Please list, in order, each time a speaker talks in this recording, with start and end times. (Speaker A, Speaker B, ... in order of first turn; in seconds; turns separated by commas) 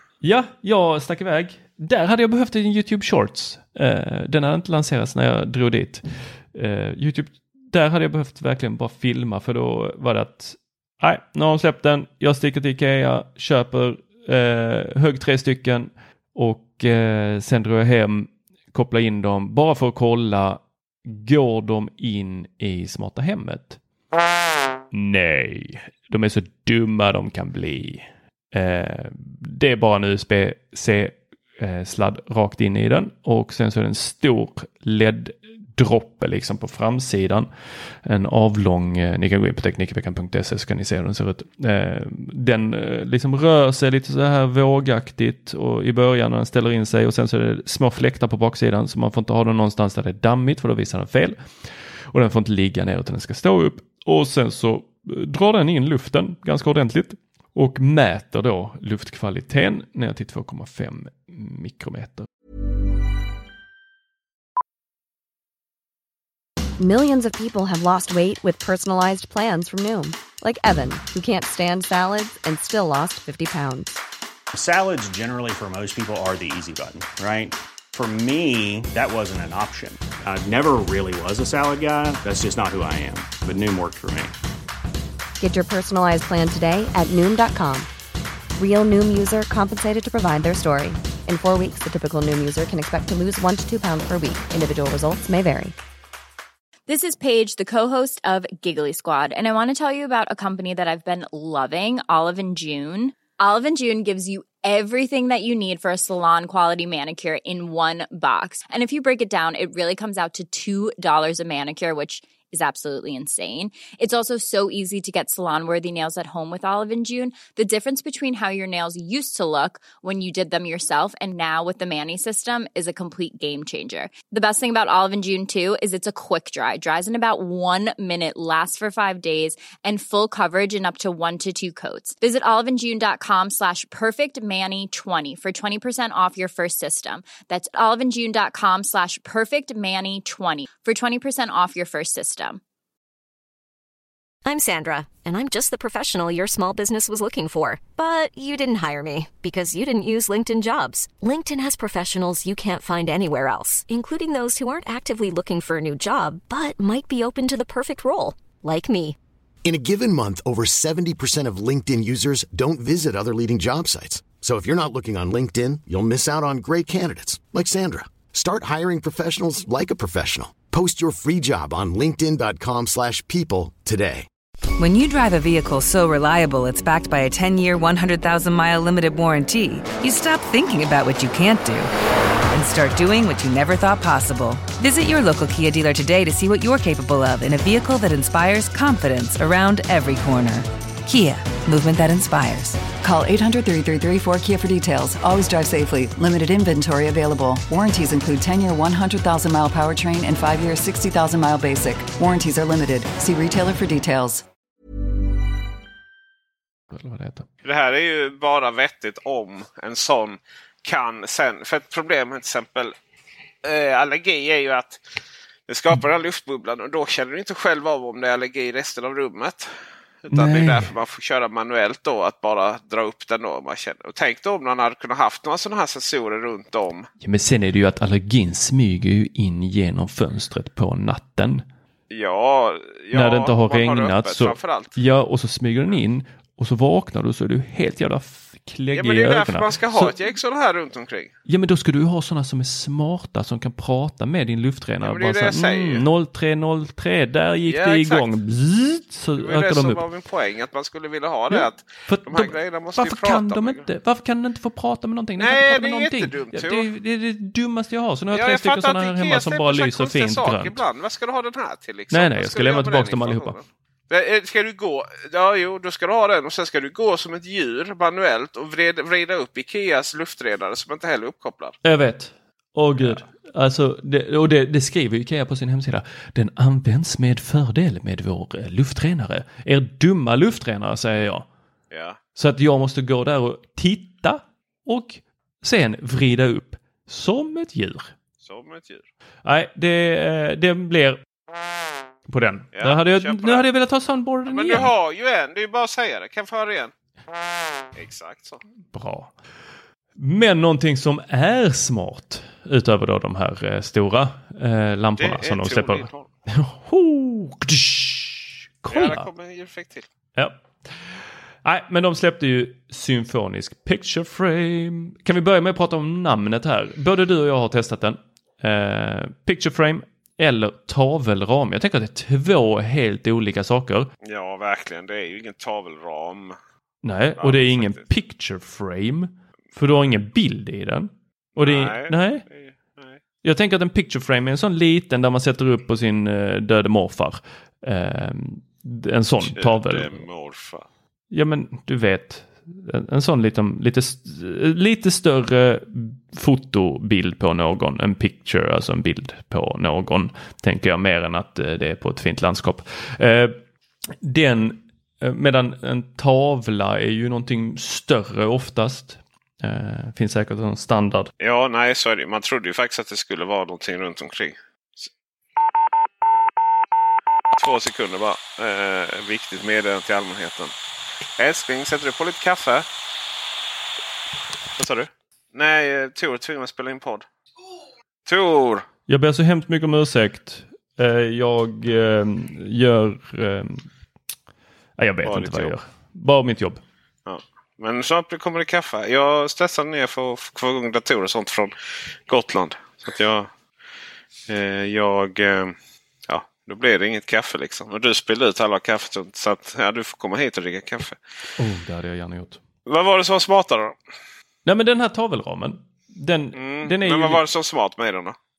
Speaker A: 0.2-23.8, Speaker A: 24.9-37.5, Speaker A: 38.0-62.3, Speaker B: 66.8-74.0, Speaker C: 74.5-84.3, Speaker B: 85.4-87.9, Speaker B: 88.6-95.8, Speaker D: 96.9-142.6, Speaker E: 144.4-159.2, Speaker F: 159.6-174.3, Speaker G: 174.8-181.9, Speaker G: 182.5-192.8, Speaker H: 191.7-204.4, Speaker A: 206.9-207.4, Speaker I: 207.6-212.9, Speaker I: 213.6-215.1, Speaker I: 215.7-227.1, Speaker A: 220.3-220.9, Speaker A: 227.2-231.6, Speaker I: 232.1-235.0, Speaker A: 233.1-240.2, Speaker I: 238.9-241.3, Speaker A: 241.4-250.0, Speaker I: 245.0-246.1, Speaker I: 247.7-248.3, Speaker I: 249.3-253.9, Speaker A: 251.5-260.8, Speaker I: 255.4-256.9, Speaker I: 258.3-271.8, Speaker A: 262.1-263.6, Speaker A: 271.8-281.4, Speaker I: 273.0-273.2, Speaker I: 281.9-282.2, Speaker A: 282.4-288.1, Speaker I: 288.4-289.1, Speaker A: 289.4-291.2, Speaker A: 292.3-294.9, Speaker I: 292.7-293.7, Speaker I: 294.5-296.9, Speaker I: 297.9-298.6, Speaker A: 298.9-299.3, Speaker A: 300.2-309.3, Speaker I: 305.2-306.3, Speaker I: 308.9-310.1, Speaker A: 310.3-311.1, Speaker A: 311.6-324.1, Speaker I: 324.2-326.6, Speaker A: 327.0-332.4, Speaker I: 327.4-328.1, Speaker I: 331.6-333.2, Speaker A: 333.4-340.2, Speaker I: 339.4-340.9, Speaker A: 341.3-353.6, Speaker A: 354.2-361.3, Speaker I: 361.4-365.1, Speaker I: 367.5-370.7, Speaker I: 371.4-372.9, Speaker I: 374.8-377.3, Speaker I: 378.2-378.9, Speaker A: 379.1-383.8, Speaker A: 385.0-386.8, Speaker I: 385.2-385.8, Speaker I: 387.2-393.5, Speaker I: 394.5-395.8, Speaker I: 396.3-401.2, Speaker A: 401.6-402.6, Speaker I: 402.9-403.9, Speaker A: 404.6-407.4, Speaker I: 406.5-408.4